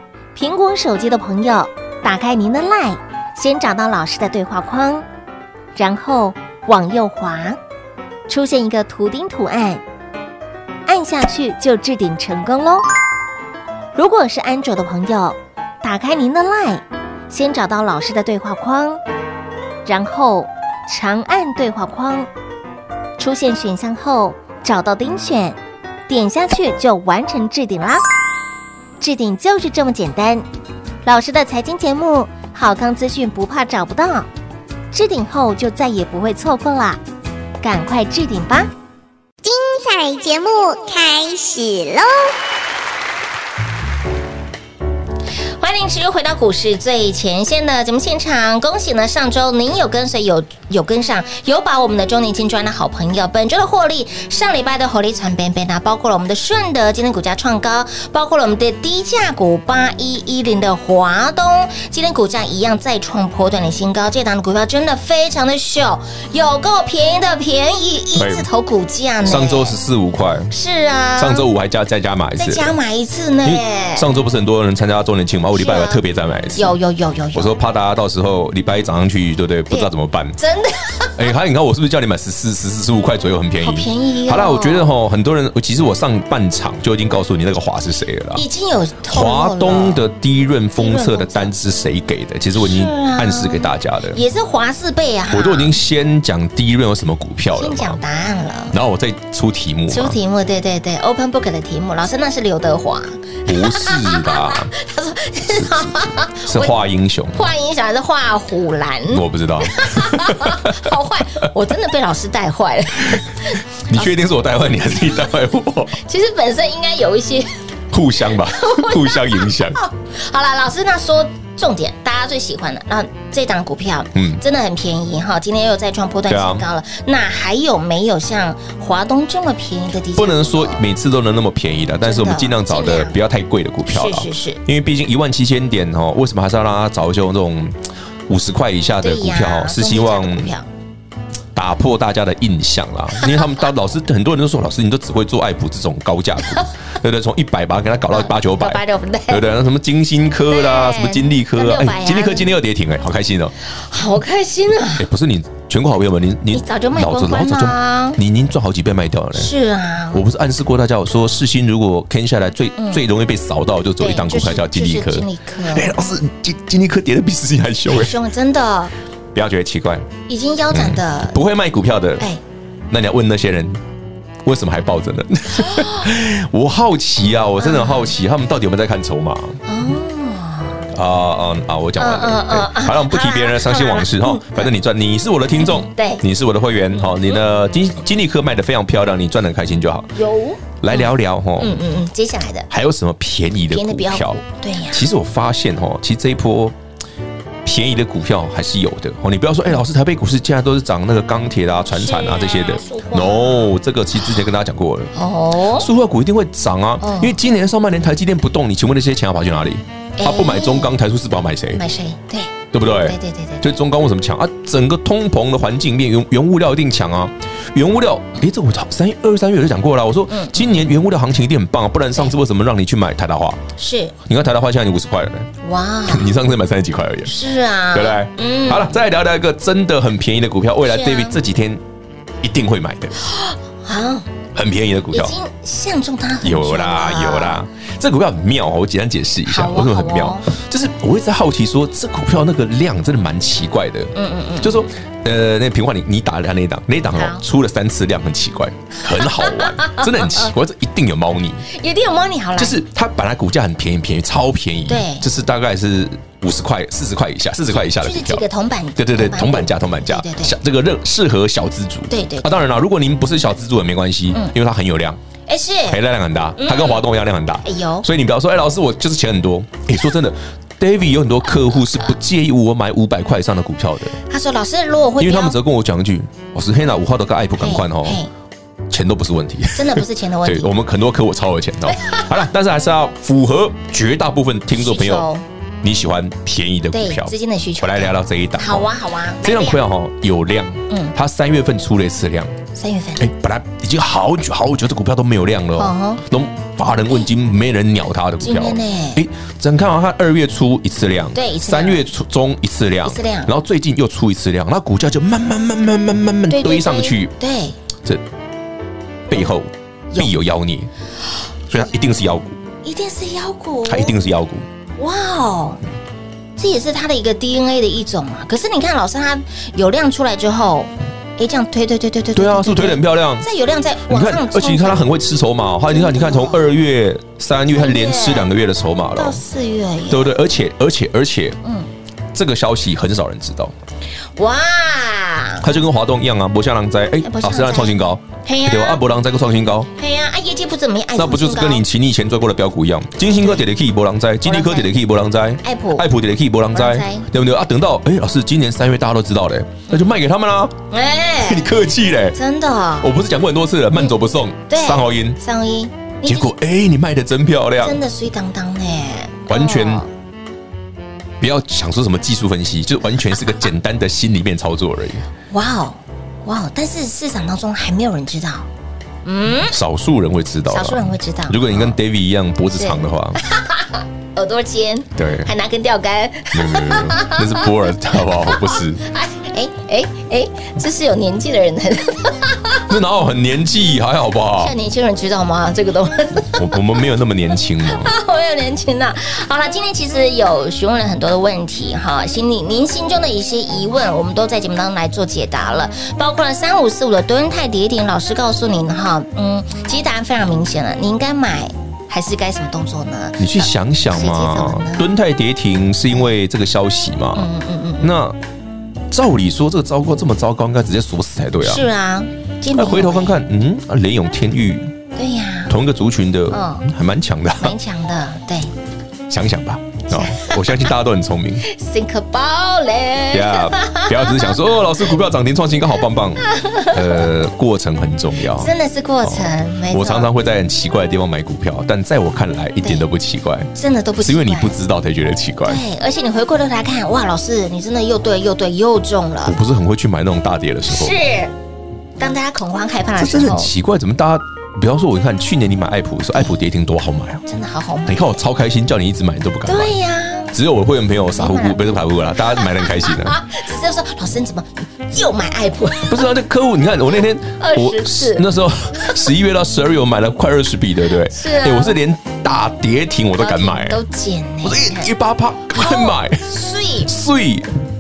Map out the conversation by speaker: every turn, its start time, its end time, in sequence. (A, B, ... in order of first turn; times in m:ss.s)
0:00.4-0:05.0 A
0:05.8-0:07.6 A
0:08.3-0:09.8 A
0:10.9-0:12.8 A
0:14.0-0:19.0 A
0:19.9-0:22.3 A
0:23.2-0:28.0 A
0:29.0-0:30.4 A
0:31.0-0:34.3 A
0:34.9-0:37.0 A
0:37.6-0:38.7 A
0:39.4-0:42.3 B
0:45.6-1:09.8 A
1:08.2-1:08.5 C
1:09.2-1:10.5 C
1:10.5-1:11.4 A
1:11.2-1:12.7 C
1:12.4-1:14.1 A
1:13.4-1:16.8 C
1:15.5-1:16.0 A
1:16.6-1:17.6 A
1:17.3-1:20.4 C
1:19.7-1:21.2 A
1:21.2-1:28.4 C
1:23.6-1:24.9 A
1:28.4-1:30.0 A
1:29.1-1:34.2 C
1:30.8-1:31.6 A
1:32.6-1:35.8 A
1:35.3-1:38.0 C
1:37.5-1:38.8 A
1:38.7-1:40.2 C
1:39.9-1:46.8 A
1:43.5-1:44.7 C
1:45.5-1:47.4 C
1:47.3-1:54.0 A
1:49.1-1:50.9 C
1:53.9-1:56.0 C
1:55.9-1:57.5 A
1:57.9-1:59.8 C
1:58.4-2:10.8 A
2:04.2-2:04.4 C
2:06.3-2:06.6 C
2:10.2-2:20.5 C
2:12.0-2:13.2 A
2:13.9-2:14.6 A
2:19.0-2:20.7 A
2:21.5-2:33.5 C
2:23.2-2:23.5 A
2:28.1-2:29.4 A
2:30.5-2:32.5 A
2:33.6-2:35.1 A
2:35.0-2:39.5 C
2:36.5-2:38.2 A
2:39.4-2:40.2 A
2:40.1-2:48.2 C
2:42.8-2:43.0 A
2:44.0-2:45.9 A
2:47.9-2:48.9 A
2:49.3-2:50.1 C
2:50.3-2:51.4 A
2:50.7-2:52.3 C
2:52.9-2:53.8 C
2:54.4-2:59.6 C
2:55.6-2:56.1 A
2:57.6-2:58.1 A
2:59.6-3:00.9 A
3:00.9-3:10.1 C
3:02.0-3:04.7 A
3:05.6-3:06.2 A
3:10.2-3:12.7 A
3:10.8-3:11.8 C
3:12.7-3:16.8 C
3:13.7-3:15.1 A
3:17.6-3:25.1 C
3:21.9-3:23.7 A
3:25.1-3:25.9 A
3:25.8-3:31.8 C
3:27.0-3:27.4 A
3:30.2-3:30.9 A
3:31.7-3:33.7 A
3:32.7-3:43.6 C
3:40.3-3:40.6 A
3:43.8-3:44.1 A
3:44.3-3:45.5 C
3:45.6-3:46.3 A
3:46.1-3:47.3 C
3:47.3-3:48.9 A
3:47.9-3:51.8 C
3:50.9-3:51.4 A
3:52.4-3:53.2 C
3:53.2-3:54.3 A
3:54.6-3:55.3 C
3:55.1-3:57.6 A
3:56.4-4:11.6 C
3:59.5-4:00.5 A
4:04.2-4:04.9 A
4:07.1-4:07.4 A
4:09.0-4:10.5 A
4:11.7-4:12.8 A
4:12.6-4:18.4 C
4:14.9-4:15.3 A
4:17.8-4:20.6 A
4:19.0-4:25.2 C
4:22.1-4:22.7 A
4:25.5-4:26.0 A
4:25.9-4:34.2 C
4:26.6-4:27.1 A
4:27.6-4:28.1 A
4:34.3-4:35.6 A
4:35.2-4:38.2 C
4:37.6-4:38.3 A
4:38.9-4:45.3 C
4:39.8-4:40.7 A
4:42.0-4:42.3 A
4:44.8-4:45.4 A
4:45.8-4:48.9 C
4:46.9-4:49.8 A
4:49.4-4:52.6 C
4:50.9-4:51.2 A
4:52.8-4:53.2 A
4:53.2-5:07.3 C
4:55.8-4:56.2 A
4:58.4-4:59.2 A
5:01.4-5:02.0 A
5:03.0-5:03.5 A
5:06.5-5:07.8 A
5:09.3-5:10.9 C
5:11.7-5:12.6 C
5:12.8-5:14.2 A
5:13.9-5:14.6 C
5:15.0-5:15.8 A
5:16.6-5:25.1 A
5:22.4-5:23.5 C
5:24.1-5:29.4 C
5:25.9-5:26.7 A
5:27.7-5:28.5 A
5:29.2-5:30.4 A
5:30.1-5:31.6 C
5:32.3-5:33.7 C
5:34.4-5:35.7 A
5:35.6-5:39.9 C
5:37.2-5:39.0 A
5:40.0-5:41.8 A
5:41.2-5:50.8 C
5:43.3-5:43.7 A
5:44.4-5:44.9 A
5:45.6-5:46.1 A
5:46.7-5:47.3 A
5:50.9-5:51.7 A
5:51.4-5:52.4 C
5:52.3-5:53.1 A
5:53.0-5:55.4 C
5:54.7-5:56.5 A
5:56.2-5:58.0 C
5:57.8-6:00.1 A
5:59.5-6:00.0 C
6:01.4-6:05.3 C
6:05.5-6:08.7 A
6:09.2-6:09.7 A
6:09.6-6:13.4 C
6:10.7-6:12.0 A
6:12.7-6:22.9 A
6:15.2-6:15.5 C
6:16.5-6:19.0 C
6:22.9-6:24.7 C
6:24.6-6:26.8 A
6:26.6-6:28.1 C
6:27.8-6:45.1 A
6:43.4-6:47.5 C
6:47.4-6:48.1 A
6:48.0-6:48.4 C
6:49.1-6:51.8 C
6:51.6-6:53.4 A
6:52.7-6:54.9 C
6:55.2-6:55.7 A
6:55.7-6:57.8 C
6:56.5-6:56.9 A
6:57.6-6:58.7 A
6:59.3-7:01.7 C
7:00.1-7:00.9 A
7:01.6-7:04.6 A
7:03.3-7:08.7 C
7:06.4-7:07.1 A
7:08.5-7:10.3 A
7:09.2-7:15.8 C
7:12.8-7:13.1 A
7:13.8-7:14.7 A
7:15.7-7:19.6 A
7:19.4-7:21.2 C
7:20.9-7:21.5 A
7:22.2-7:23.7 A
7:23.2-7:27.4 C
7:27.5-7:28.4 A
7:28.1-7:30.0 C
7:29.6-7:30.5 A
7:30.5-7:33.4 C
7:31.4-7:36.3 A
7:36.1-7:44.0 C
7:37.6-7:38.4 A
7:39.0-7:39.2 A
7:41.3-7:42.0 A
7:43.4-7:45.1 A
7:44.6-7:46.5 C
7:45.7-7:47.1 A
7:47.0-7:47.7 C